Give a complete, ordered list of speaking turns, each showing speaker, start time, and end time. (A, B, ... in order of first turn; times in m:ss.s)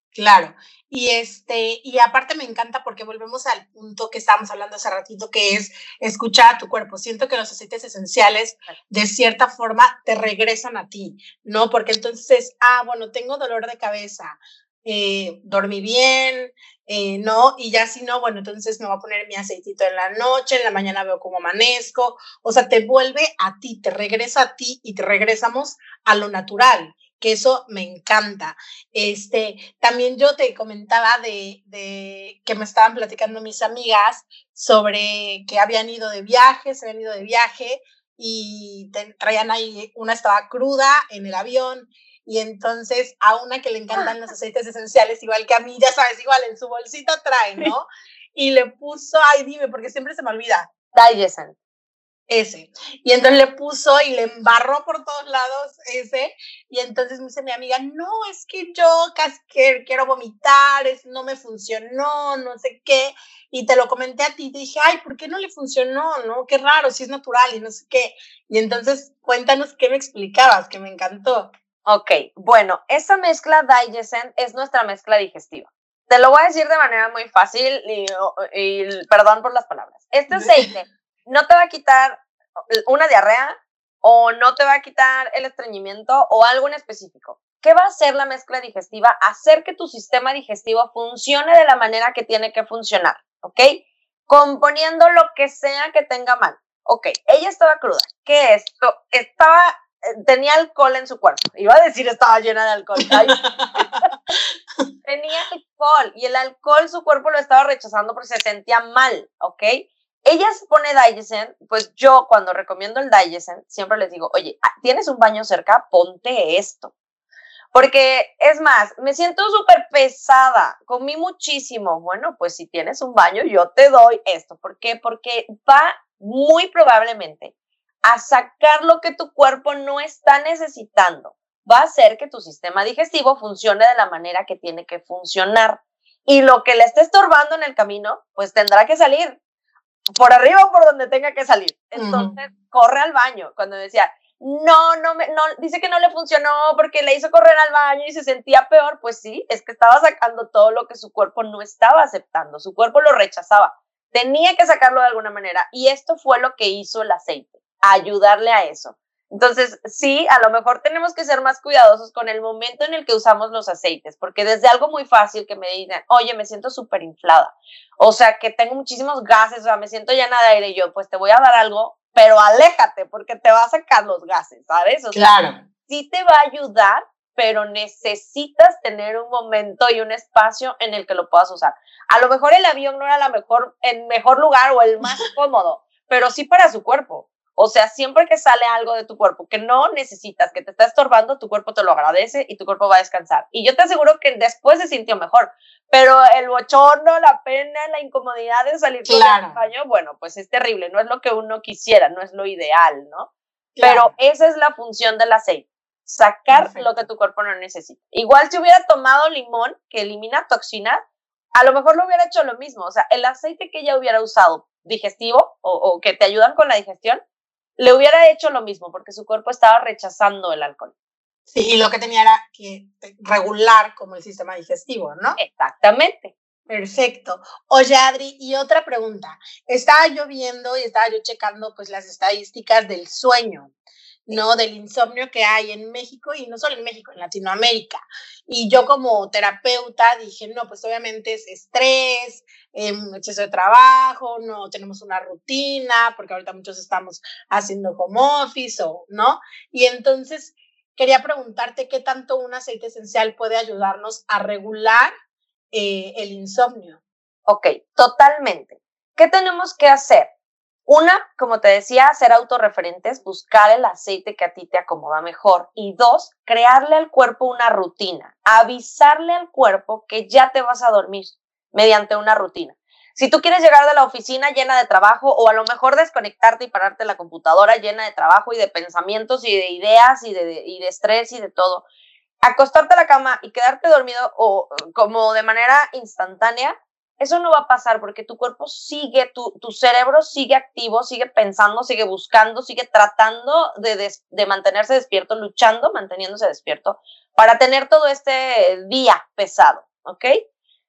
0:00.2-0:50.7 A
0:50.9-0:51.6 B
0:52.3-1:11.5 A
1:11.9-1:44.1 B
1:20.3-1:20.6 A
1:43.1-1:43.9 A
1:45.0-1:56.9 B
1:57.7-2:07.5 B
2:08.0-2:19.4 B
2:20.2-2:55.3 B
2:22.0-2:22.3 A
2:55.1-2:55.6 A
2:55.9-3:23.3 B
3:19.1-3:19.6 A
3:23.8-3:24.1 A
3:23.8-3:31.0 B
3:26.5-3:27.0 A
3:31.6-3:37.2 B
3:37.8-3:40.9 B
3:41.5-3:45.4 A
3:45.4-3:46.3 B
3:46.7-3:53.7 A
3:54.3-4:15.1 A
4:15.7-4:17.0 A
4:17.5-4:20.3 B
4:20.9-4:41.8 B
4:42.4-5:00.4 B